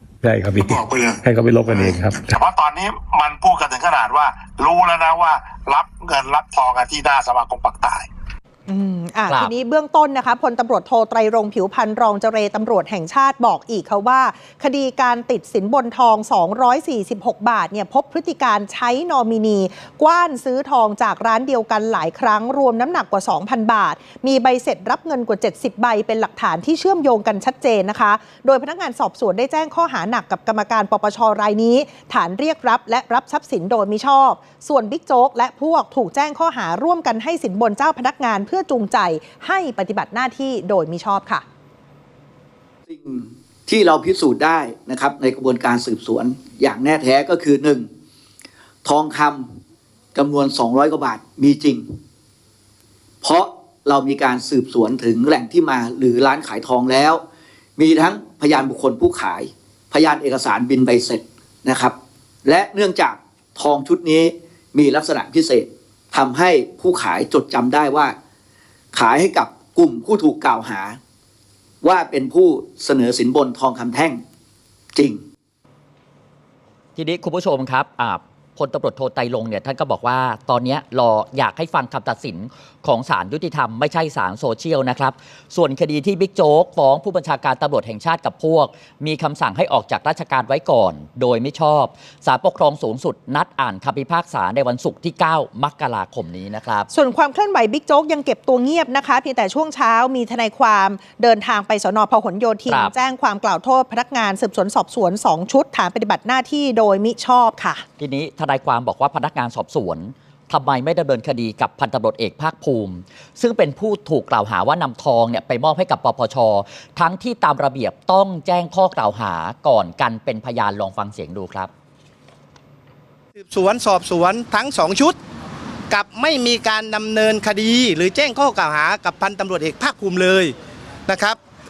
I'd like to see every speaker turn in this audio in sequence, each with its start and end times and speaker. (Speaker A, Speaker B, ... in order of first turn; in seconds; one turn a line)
Speaker A: 0.2-2.2
Speaker B: 0.6-8.1
Speaker C: 8.7-41.4
Speaker D: 9.3-9.5
Speaker E: 42.9-47.9
Speaker E: 48.9-49.6
Speaker E: 50.1-51.9
Speaker E: 53.2-57.2
Speaker E: 57.8-68.2
Speaker E: 68.9-71.0
Speaker E: 71.8-74.2
Speaker E: 75.0-75.2
Speaker D: 77.0-96.9
Speaker C: 96.9-107.8
Speaker D: 102.7-102.9
Speaker D: 108.0-121.7
Speaker F: 123.3-125.2
Speaker F: 125.9-130.6
Speaker F: 131.1-131.4